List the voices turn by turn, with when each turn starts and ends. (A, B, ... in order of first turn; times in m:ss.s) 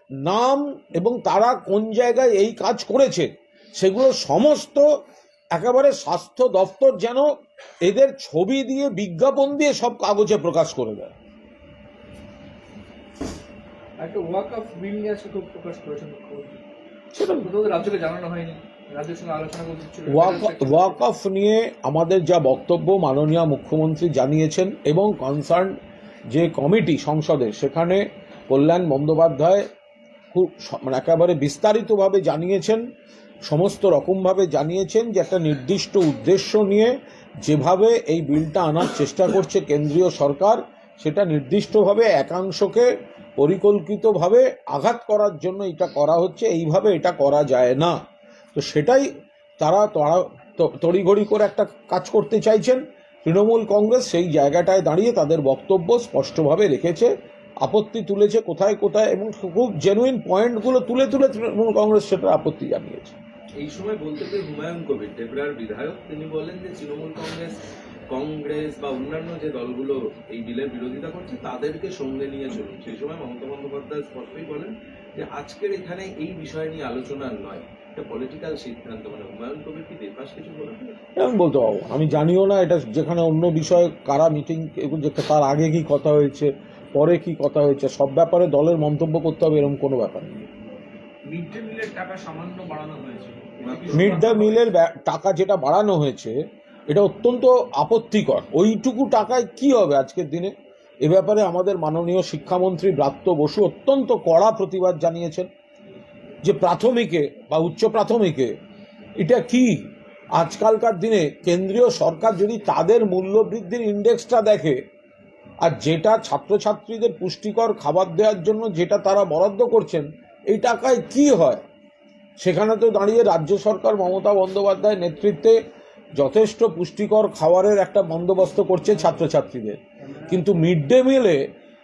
0:00.2-0:04.8 A
0:05.5-0:07.2 A
0:07.8-0:11.1 A
0:14.0-0:16.6 B
0:17.1-0:17.5 A
0:17.4-0:21.0 B
0:20.1-0:25.7 A
0:26.3-0:29.6 A
0:30.3-0:32.8 A
0:33.5-0:48.0 A
0:48.5-0:49.1 A
0:49.6-0:57.1 A
0:57.6-1:03.2 A
1:03.6-1:07.6 C
1:08.1-1:20.9 C
1:21.2-1:30.5 A
1:31.3-1:34.6 D
1:33.6-1:34.3 C
1:33.9-1:36.3 A
1:36.9-1:40.5 A
1:41.0-1:45.5 A
1:46.4-1:48.5 A
1:49.2-1:49.8 A
1:50.3-1:54.8 A
1:55.6-2:01.6 A
2:02.4-2:05.6 A
2:06.2-2:11.4 A